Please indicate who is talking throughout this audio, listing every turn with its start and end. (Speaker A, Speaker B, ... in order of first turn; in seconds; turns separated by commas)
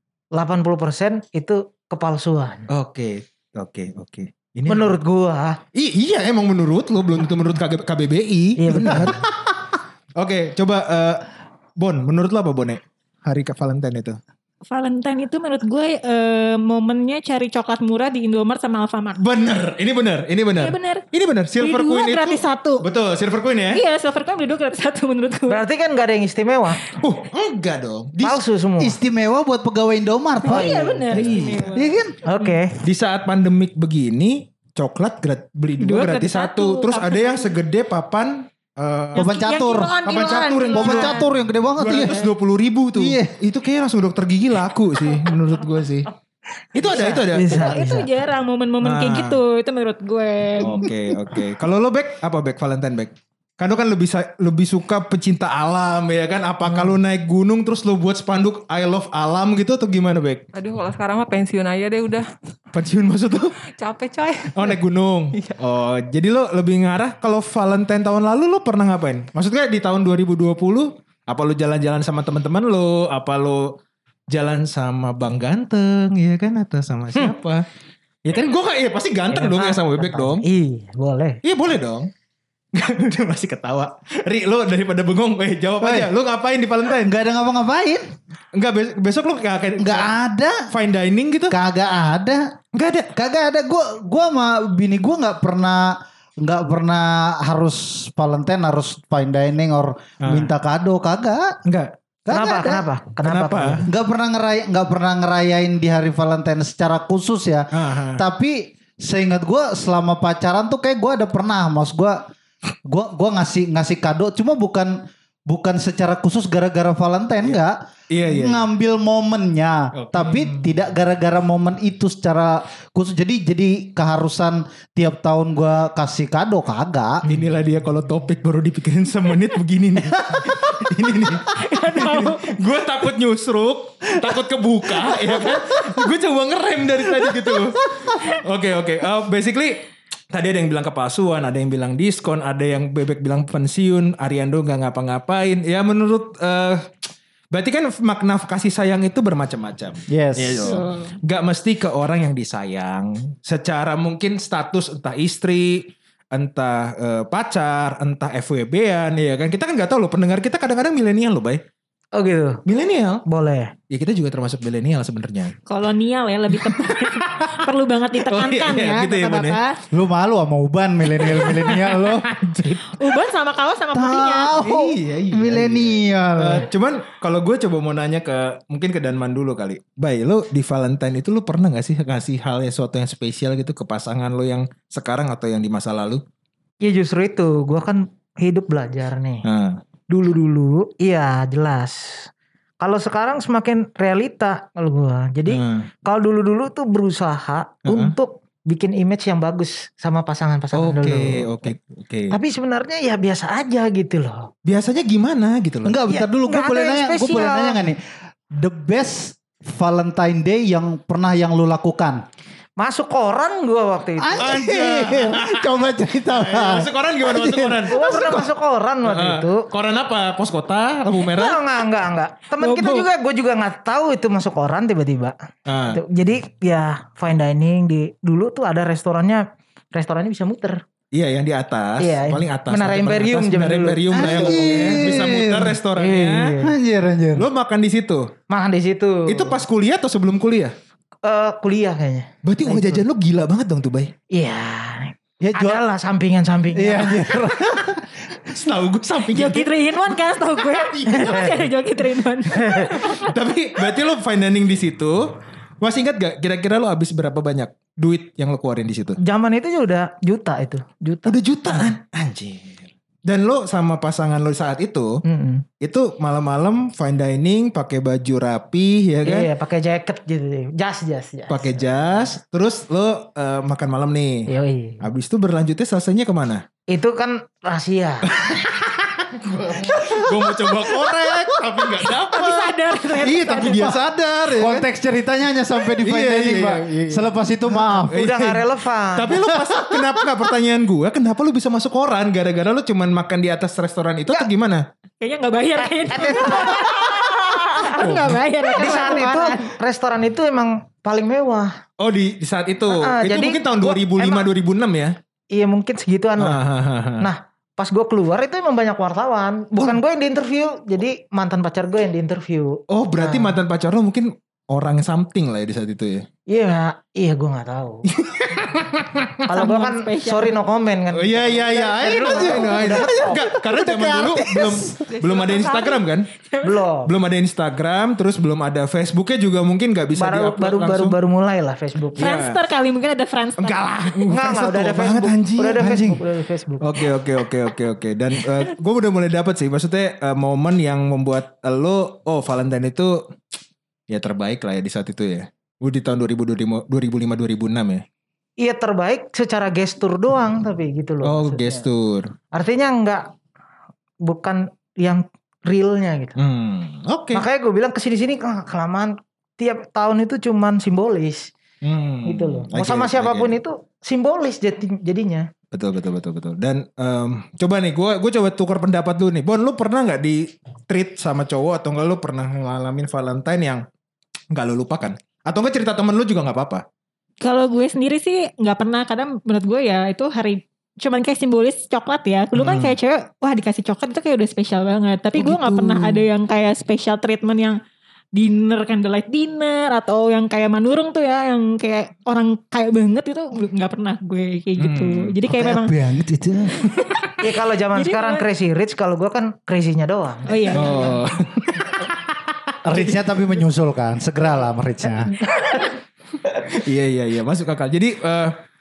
Speaker A: 0.3-2.7, Speaker B: 2.7-5.0, Speaker A: 4.7-5.6, Speaker B: 5.7-9.6, Speaker A: 8.6-9.2, Speaker B: 10.2-14.2, Speaker C: 14.7-19.2, Speaker B: 19.2-23.8, Speaker C: 20.6-21.0, Speaker C: 21.6-22.9, Speaker C: 23.7-25.6, Speaker A: 25.5-26.8, Speaker B: 27.0-28.4, Speaker A: 28.2-29.0, Speaker D: 28.8-32.1, Speaker C: 30.4-32.6, Speaker A: 30.5-31.0, Speaker B: 31.1-31.7, Speaker A: 32.2-32.8, Speaker B: 32.8-39.3, Speaker C: 35.8-37.5, Speaker C: 39.1-41.3, Speaker D: 39.1-42.3, Speaker B: 40.0-46.1, Speaker D: 42.9-43.4, Speaker B: 46.7-47.7, Speaker A: 46.8-48.1, Speaker C: 47.4-50.9, Speaker B: 48.8-49.4, Speaker B: 50.6-60.4, Speaker A: 56.7-56.9, Speaker E: 60.5-62.2, Speaker B: 62.7-63.6, Speaker E: 63.6-64.8, Speaker B: 64.5-73.8, Speaker B: 74.3-77.7, Speaker B: 78.2-80.4, Speaker A: 79.3-81.4, Speaker B: 81.4-82.1, Speaker B: 82.7-87.1, Speaker D: 85.8-86.1, Speaker D: 87.0-88.0, Speaker B: 88.5-90.1, Speaker D: 89.8-90.7, Speaker B: 90.7-91.6, Speaker D: 91.5-92.5, Speaker B: 92.7-93.1, Speaker D: 93.1-101.6, Speaker B: 100.2-100.5, Speaker B: 101.6-101.9, Speaker D: 102.2-102.8, Speaker A: 102.3-103.9, Speaker B: 103.2-103.8, Speaker D: 103.9-112.2, Speaker B: 107.7-108.2, Speaker D: 112.8-115.0, Speaker D: 115.5-127.2, Speaker B: 118.1-118.7, Speaker B: 119.9-120.7, Speaker B: 127.3-146.8, Speaker D: 130.2-130.5, Speaker C: 131.4-132.6, Speaker B: 147.5-161.6, Speaker D: 150.1-150.8, Speaker C: 150.6-151.1, Speaker A: 162.1-162.6, Speaker B: 162.6-163.2, Speaker A: 163.2-163.7, Speaker B: 163.9-165.5, Speaker C: 165.7-169.8, Speaker B: 166.5-167.7, Speaker B: 168.2-169.6, Speaker D: 169.9-172.3, Speaker B: 171.2-173.0, Speaker C: 172.8-174.5, Speaker D: 173.9-176.7, Speaker B: 174.5-186.2, Speaker A: 186.8-189.4, Speaker B: 189.4-189.8, Speaker A: 190.1-192.3, Speaker A: 192.8-201.7, Speaker B: 195.5-195.9, Speaker B: 197.8-198.1, Speaker B: 200.7-202.3, Speaker A: 202.3-204.5, Speaker B: 204.6-206.0, Speaker D: 205.8-208.0, Speaker A: 206.1-207.8, Speaker D: 208.5-212.2, Speaker A: 212.8-214.4, Speaker D: 214.2-218.5, Speaker B: 214.4-218.2, Speaker A: 217.9-219.6, Speaker B: 219.0-221.7, Speaker A: 221.2-225.3, Speaker C: 222.7-223.0, Speaker B: 225.7-226.0, Speaker A: 225.9-230.8, Speaker B: 231.1-236.6, Speaker A: 232.0-235.1, Speaker D: 234.1-235.8, Speaker A: 235.9-236.7, Speaker D: 236.6-237.5, Speaker B: 237.3-238.3, Speaker A: 238.5-239.6, Speaker B: 239.3-240.7, Speaker A: 241.2-243.0, Speaker B: 242.4-244.1, Speaker A: 244.3-247.4, Speaker D: 245.4-245.8, Speaker D: 246.7-248.0, Speaker B: 247.9-251.7, Speaker C: 249.3-253.3, Speaker A: 251.2-251.6, Speaker A: 252.5-252.9, Speaker B: 252.9-259.2, Speaker A: 259.2-261.9, Speaker B: 261.2-265.2, Speaker A: 265.2-265.6, Speaker B: 265.8-269.5, Speaker A: 269.2-272.1, Speaker B: 271.5-274.5, Speaker A: 274.5-275.0, Speaker B: 275.0-276.6, Speaker A: 276.9-278.4, Speaker B: 278.3-284.9, Speaker C: 282.0-283.9, Speaker D: 283.6-284.0, Speaker D: 284.5-288.1, Speaker B: 286.0-294.8, Speaker A: 288.1-289.4, Speaker D: 289.6-290.2, Speaker C: 295.2-299.7, Speaker A: 296.0-298.0, Speaker B: 298.0-298.4, Speaker A: 298.7-301.7, Speaker B: 302.0-305.1, Speaker A: 302.9-304.5, Speaker A: 305.5-306.6, Speaker B: 306.4-307.3, Speaker A: 307.2-313.6, Speaker B: 312.9-316.2, Speaker A: 316.5-318.1, Speaker B: 318.1-319.4, Speaker A: 319.4-323.5, Speaker C: 319.5-320.6, Speaker B: 321.1-326.3, Speaker D: 322.1-325.0, Speaker E: 325.1-326.0, Speaker C: 326.3-326.8, Speaker A: 326.6-327.1, Speaker B: 327.0-331.2, Speaker A: 330.1-332.3, Speaker B: 332.2-332.6, Speaker C: 332.2-334.2, Speaker B: 333.6-336.2, Speaker A: 334.3-336.9, Speaker B: 336.8-343.2, Speaker B: 344.1-348.0, Speaker A: 348.6-351.9, Speaker B: 351.2-352.3, Speaker A: 352.5-353.3, Speaker A: 354.2-356.4, Speaker B: 356.4-357.4, Speaker A: 357.3-361.5, Speaker B: 361.8-363.6, Speaker A: 362.2-365.5, Speaker B: 365.7-373.8, Speaker B: 374.5-376.8, Speaker C: 377.4-387.8, Speaker B: 382.5-382.9, Speaker B: 385.4-386.2, Speaker C: 388.4-395.9, Speaker B: 394.8-395.3, Speaker D: 395.5-396.8, Speaker A: 397.4-401.2, Speaker C: 397.9-398.4, Speaker C: 400.4-401.2, Speaker B: 400.7-402.1, Speaker D: 402.8-405.3, Speaker B: 406.5-408.6